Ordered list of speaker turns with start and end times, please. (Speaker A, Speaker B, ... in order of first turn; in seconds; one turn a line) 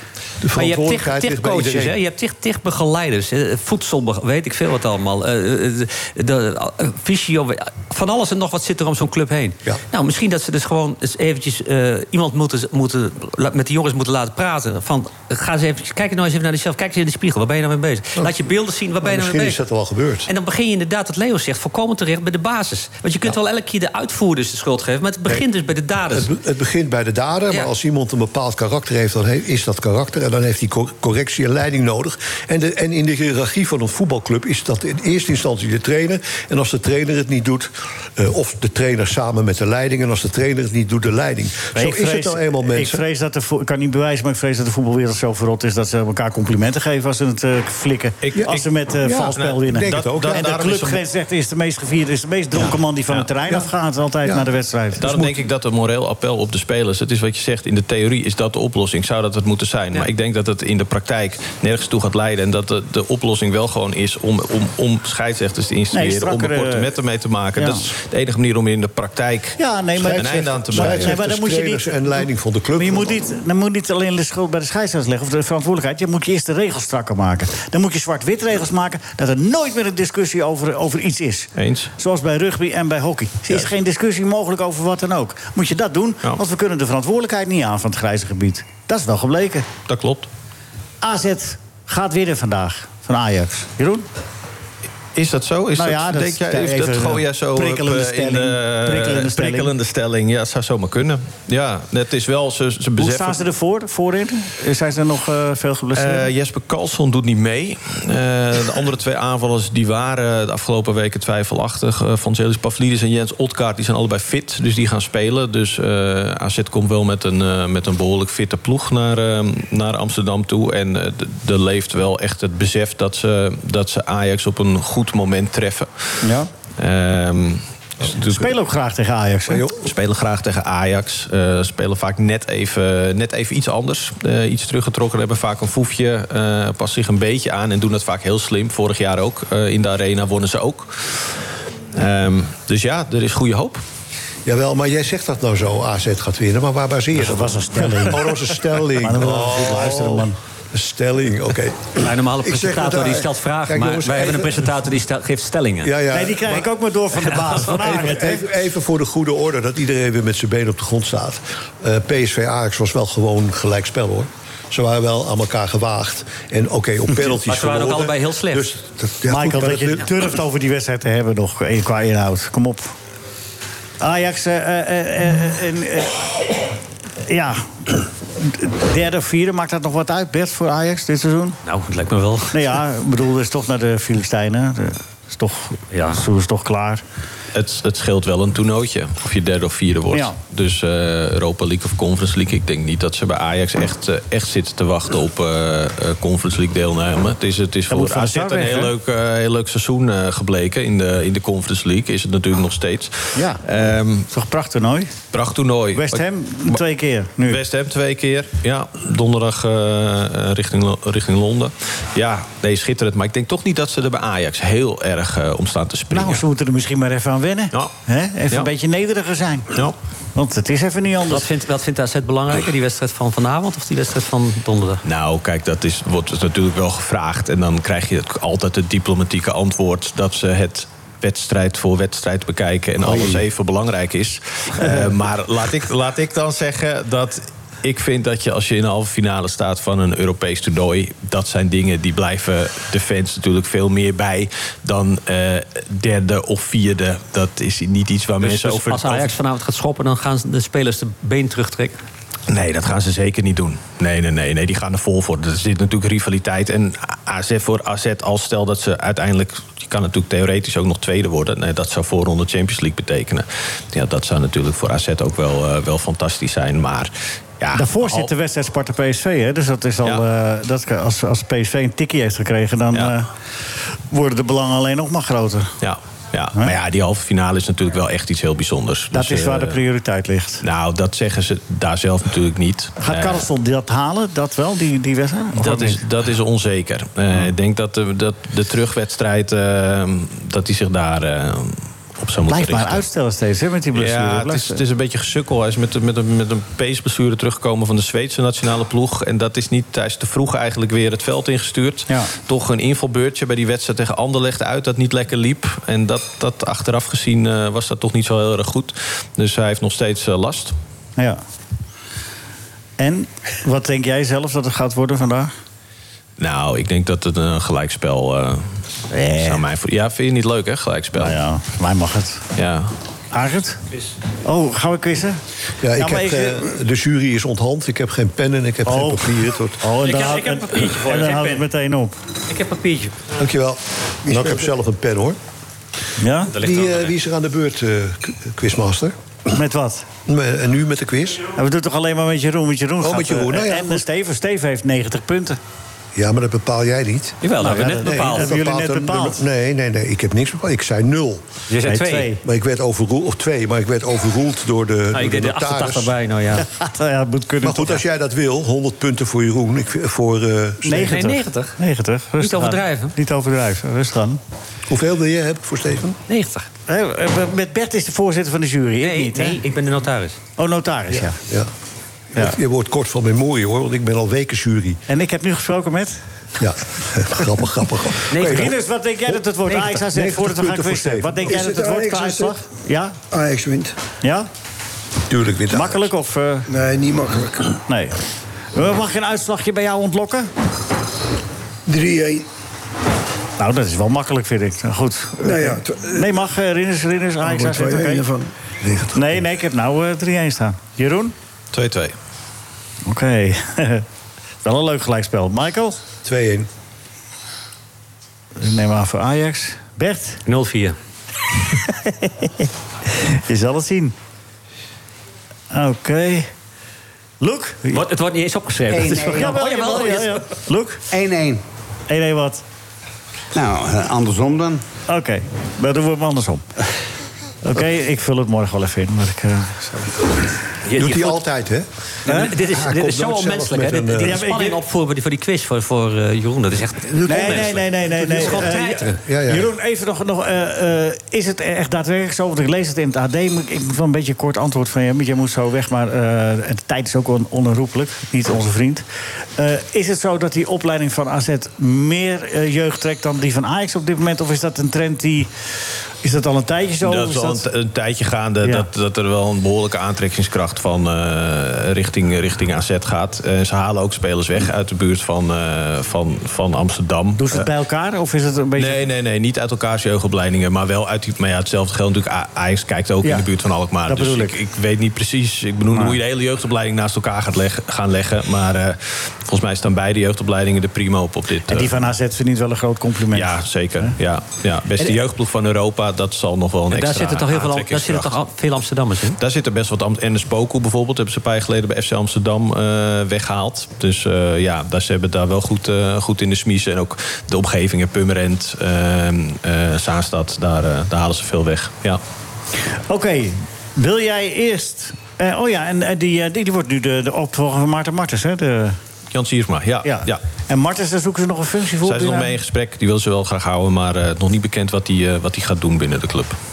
Speaker A: 0.4-2.0
Speaker B: 0.6-19.6
Speaker A: 19.0-20.3
Speaker B: 20.3-26.3
Speaker A: 26.1-43.0
Speaker C: 41.7-55.0
Speaker D: 48.2-48.7
Speaker A: 49.0-50.6
Speaker D: 49.3-51.0
Speaker D: 55.0-69.6
Speaker A: 55.0-55.4
Speaker C: 65.9-66.9
Speaker C: 67.6-67.9
Speaker C: 69.6-72.2
Speaker A: 70.0-73.2
Speaker D: 70.1-71.2
Speaker C: 72.8-89.7
Speaker D: 81.6-81.9
Speaker D: 89.9-90.3
Speaker C: 91.0-94.1
Speaker D: 95.2-103.4
Speaker C: 95.8-99.7
Speaker C: 103.0-106.3
Speaker D: 106.0-126.1
Speaker D: 126.8-128.5
Speaker C: 128.2-129.7
Speaker A: 129.5-129.9
Speaker D: 129.8-141.4
Speaker D: 141.9-143.8
Speaker A: 144.4-152.0
Speaker C: 147.2-150.4
Speaker B: 152.0-155.9
Speaker E: 152.4-153.3
Speaker A: 153.7-154.7
Speaker A: 155.8-156.7
Speaker C: 156.1-158.5
Speaker A: 157.5-170.1
Speaker B: 167.4-168.8
Speaker C: 169.3-172.9
Speaker C: 174.0-176.2
Speaker C: 177.3-181.6
Speaker B: 181.6-182.6
Speaker C: 182.5-187.0
Speaker B: 185.9-186.2
Speaker D: 187.5-204.3
Speaker C: 197.9-198.9
Speaker C: 203.3-203.7
Speaker C: 204.3-205.1
Speaker D: 205.3-206.8
Speaker C: 205.9-207.6
Speaker D: 207.4-216.4
Speaker C: 216.1-219.7
Speaker C: 220.3-221.5
Speaker B: 221.3-225.0
Speaker D: 225.0-249.3
Speaker B: 248.4-252.0
Speaker D: 252.5-268.3
Speaker C: 267.7-273.3
Speaker C: 274.1-275.8
Speaker D: 275.8-279.8
Speaker C: 279.1-280.6
Speaker D: 280.6-283.5
Speaker C: 283.0-286.0
Speaker D: 285.6-293.1
Speaker C: 292.5-294.8
Speaker D: 293.9-310.7
Speaker C: 313.0-315.5
Speaker D: 316.4-318.8
Speaker C: 319.1-319.7
Speaker D: 319.4-321.4
Speaker C: 321.2-322.4
Speaker D: 322.6-322.9
Speaker C: 323.3-323.8
Speaker C: 324.4-325.4
Speaker A: 325.8-329.8
Speaker C: 326.0-326.6
Speaker C: 328.9-332.1
Speaker B: 330.0-331.7
Speaker B: 332.5-333.1
Speaker A: 333.4-335.4
Speaker E: 334.3-334.7
Speaker C: 336.2-336.5
Speaker B: 336.5-337.1
Speaker A: 336.6-339.1
Speaker C: 339.5-340.1
Speaker A: 340.3-341.4
Speaker C: 341.6-345.6
Speaker A: 343.0-344.0
Speaker A: 346.1-347.4
Speaker B: 347.4-348.5
Speaker C: 347.6-349.4
Speaker A: 348.0-351.4
Speaker B: 351.7-352.3
Speaker C: 351.9-352.4
Speaker A: 352.4-356.1
Speaker B: 355.1-356.7
Speaker C: 356.6-358.0
Speaker A: 357.6-361.4
Speaker C: 360.9-364.4
Speaker B: 360.9-361.7
Speaker B: 362.4-363.1
Speaker A: 364.9-366.2
Speaker B: 366.3-366.7
Speaker C: 366.9-369.6
Speaker B: 369.0-370.4
Speaker C: 370.6-371.4
Speaker A: 372.3-375.0
Speaker C: 375.1-376.2
Speaker A: 376.6-378.8
Speaker B: 378.3-378.8
Speaker C: 378.4-383.2
Speaker A: 379.3-381.6
Speaker E: 381.4-382.6
Speaker E: 383.3-384.0
Speaker C: 384.2-384.5
Speaker A: 385.3-386.1
Speaker C: 385.7-386.7
Speaker E: 386.7-387.8
Speaker C: 387.9-388.2
Speaker C: 388.8-390.5
Speaker E: 391.9-392.5
Speaker C: 393.6-398.2
Speaker E: 395.4-396.3
Speaker E: 397.4-398.5
Speaker C: 399.1-401.4
Speaker D: 401.7-402.1
Speaker C: 403.1-404.1
Speaker C: 404.6-406.0
Speaker A: 406.2-406.7
Speaker C: 408.6-410.4
Speaker B: 410.5-411.0
Speaker C: 411.7-414.1
Speaker C: 415.7-416.5
Speaker C: 417.4-418.0
Speaker B: 417.9-420.4
Speaker F: 418.9-420.1
Speaker C: 419.2-421.0
Speaker F: 421.1-421.6
Speaker C: 422.1-422.6
Speaker F: 423.5-424.8
Speaker C: 425.1-426.6
Speaker C: 427.6-430.3
Speaker B: 430.9-431.4
Speaker A: 430.9-434.4
Speaker B: 432.3-439.2
Speaker C: 434.2-434.8
Speaker E: 437.2-437.7
Speaker C: 437.3-449.1
Speaker A: 438.7-439.7
Speaker C: 449.6-455.5
Speaker C: 456.2-457.7
Speaker D: 457.0-467.7
Speaker C: 458.6-458.9
Speaker C: 467.4-469.1
Speaker D: 468.8-482.1
Speaker C: 474.1-474.5
Speaker C: 481.7-484.2
Speaker D: 483.3-488.4
Speaker B: 486.9-489.4
Speaker D: 489.4-502.2
Speaker C: 503.1-509.0
Speaker D: 509.3-510.4
Speaker C: 510.0-512.5
Speaker D: 512.0-516.6